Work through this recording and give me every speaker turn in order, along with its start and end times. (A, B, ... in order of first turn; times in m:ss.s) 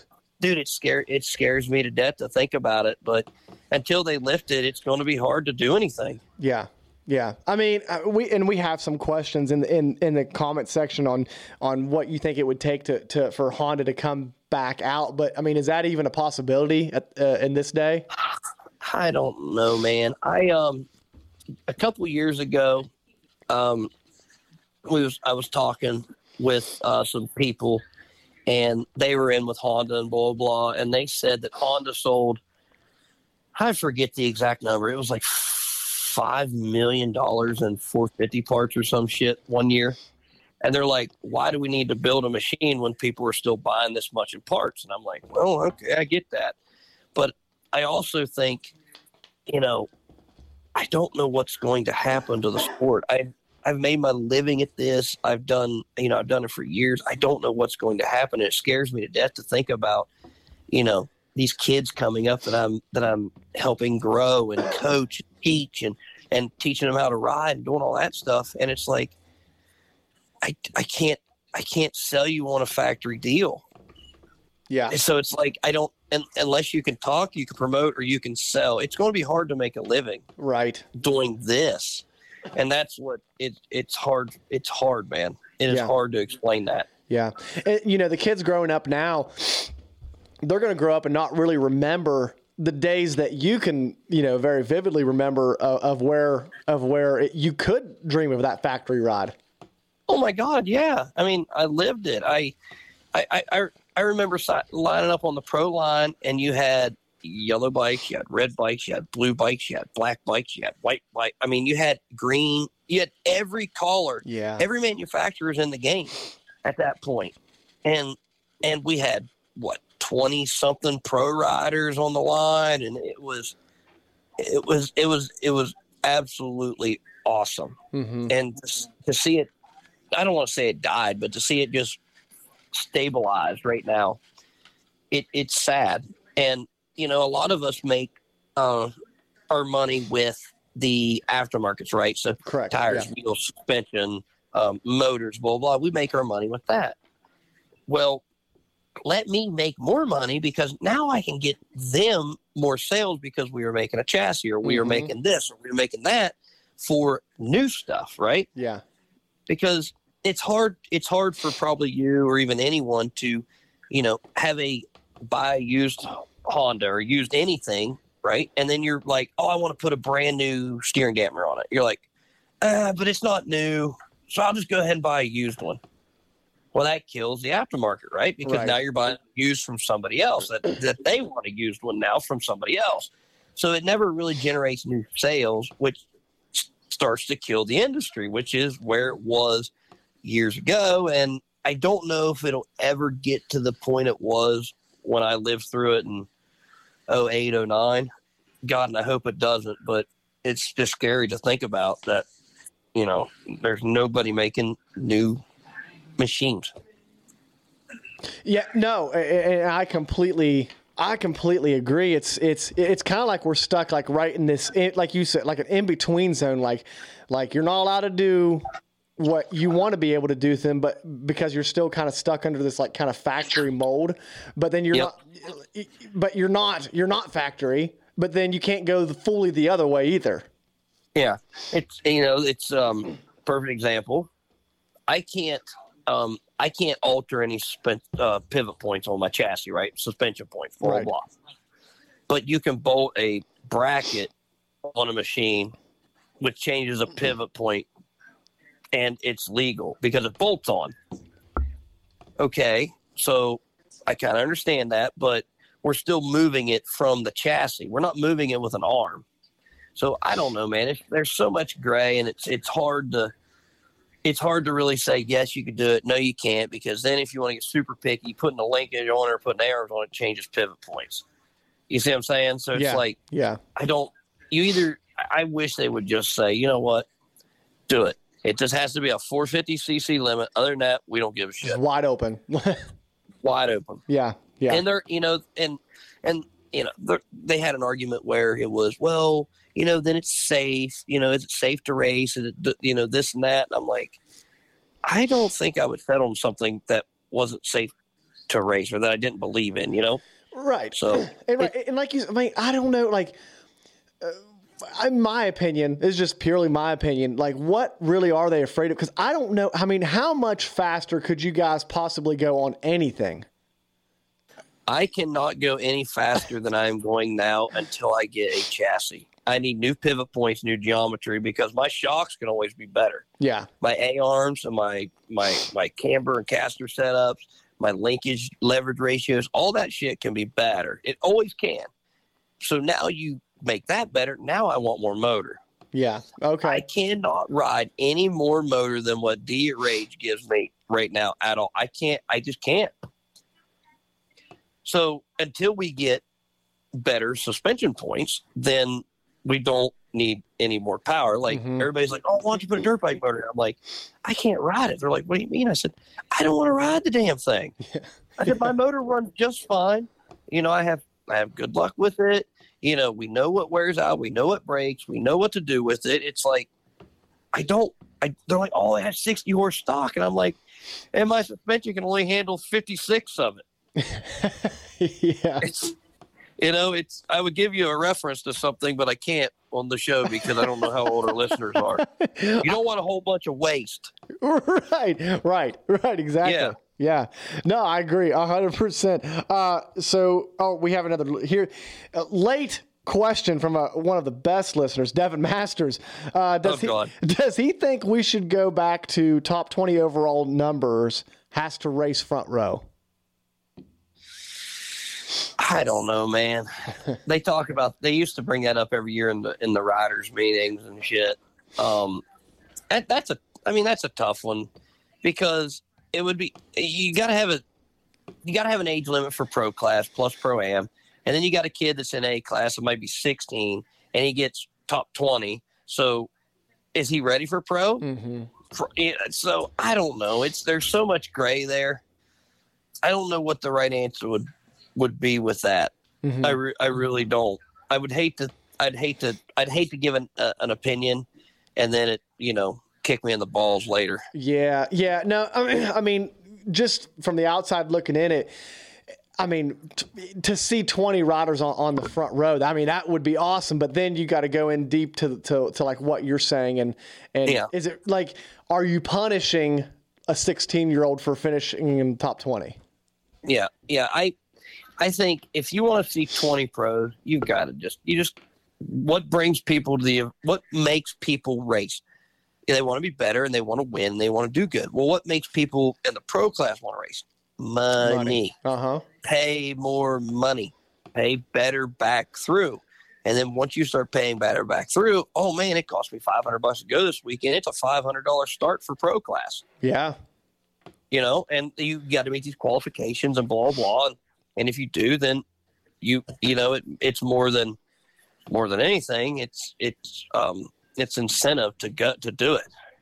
0:00.4-0:06.2 A
0:06.4-0:18.1 B
0:18.2-0:20.9 A
0:21.7-0:22.9 A
0:23.5-0:23.9 A
0:24.8-0:27.8 A
0:28.5-0:32.4 A
0:33.6-0:40.0 A
0:40.6-0:46.6 A
0:47.2-0:48.7 A
0:49.5-0:49.9 A
0:50.8-1:00.1 A
1:00.7-1:09.1 A
1:10.4-1:13.6 A
1:14.7-1:15.0 B
1:14.9-1:20.2 A
1:20.4-1:20.9 B
1:21.0-1:26.9 A
1:27.1-1:29.7 B
1:30.4-1:39.3 B
1:40.1-1:42.5 A
1:43.1-2:03.5 A
1:54.2-1:54.6 B
2:04.4-2:07.8 A
2:07.9-2:08.3 B
2:08.3-2:09.5 A
2:10.1-2:12.0 A
2:12.7-2:14.2 A
2:15.1-2:18.9 A
2:19.5-2:27.0 A
2:22.4-2:23.1 B
2:27.9-2:28.2 A
2:29.0-2:38.5 A
2:34.6-2:35.1 B
2:38.6-2:38.8 B
2:39.5-2:52.1 A
2:52.6-2:55.8 A
2:56.7-3:09.7 A
2:58.4-2:58.8 B
3:10.2-3:16.3 A
3:17.1-3:18.1 A
3:18.6-3:22.3 A
3:22.9-3:25.4 A
3:26.2-3:26.7 A
3:28.4-3:38.6 B
3:39.2-3:50.5 B
3:51.2-3:54.3 A
3:55.1-4:01.3 A
4:00.8-4:01.1 B
4:02.3-4:04.3 A
4:04.8-4:05.7 A
4:06.4-4:07.9 A
4:08.9-4:11.0 A
4:12.4-4:19.2 A
4:20.0-4:23.3 A
4:24.2-4:31.2 A
4:31.9-4:33.2 A
4:32.7-4:33.6 B
4:33.8-4:37.1 A
4:37.9-4:41.8 A
4:41.6-4:42.8 B
4:43.4-4:44.0 A
4:44.1-4:44.8 B
4:44.7-4:54.2 A
4:55.0-4:57.9 A
4:58.5-5:00.2 A
5:00.5-5:03.4 B
5:01.0-5:01.7 A
5:04.2-5:13.4 B
5:14.9-5:23.2 A
5:23.4-5:23.7 B
5:23.8-5:31.9 A
5:32.6-5:35.6 A
5:35.9-5:36.8 B
5:36.6-5:42.9 A
5:44.8-5:46.2 A
5:46.9-5:57.7 A
5:51.5-5:51.9 B
5:57.9-5:58.7 B
5:58.4-6:06.7 A
6:07.5-6:10.6 A
6:11.1-6:13.6 A
6:14.0-6:15.7 B
6:15.6-6:16.0 A
6:16.6-6:22.0 A
6:22.0-6:22.8 B
6:22.6-6:24.1 A
6:24.4-6:42.8 B
6:26.4-6:26.8 A
6:36.6-6:37.1 A
6:45.6-6:46.7 A
6:47.2-6:52.2 A
6:52.9-6:54.7 A
6:55.2-6:57.6 A
6:58.4-7:06.3 A
7:06.9-7:08.0 A
7:08.0-7:08.5 B
7:08.7-7:12.0 A
7:13.0-7:15.9 A
7:16.2-7:16.6 B
7:16.4-7:24.2 A
7:24.3-7:28.5 B
7:29.4-7:42.8 B
7:43.4-7:44.4 A
7:45.0-7:52.0 A
7:52.7-7:58.5 A
7:58.0-7:59.0 B
7:59.2-8:09.6 A
8:09.8-8:10.2 B
8:11.1-8:15.4 A
8:16.0-8:17.8 A
8:18.5-8:22.7 A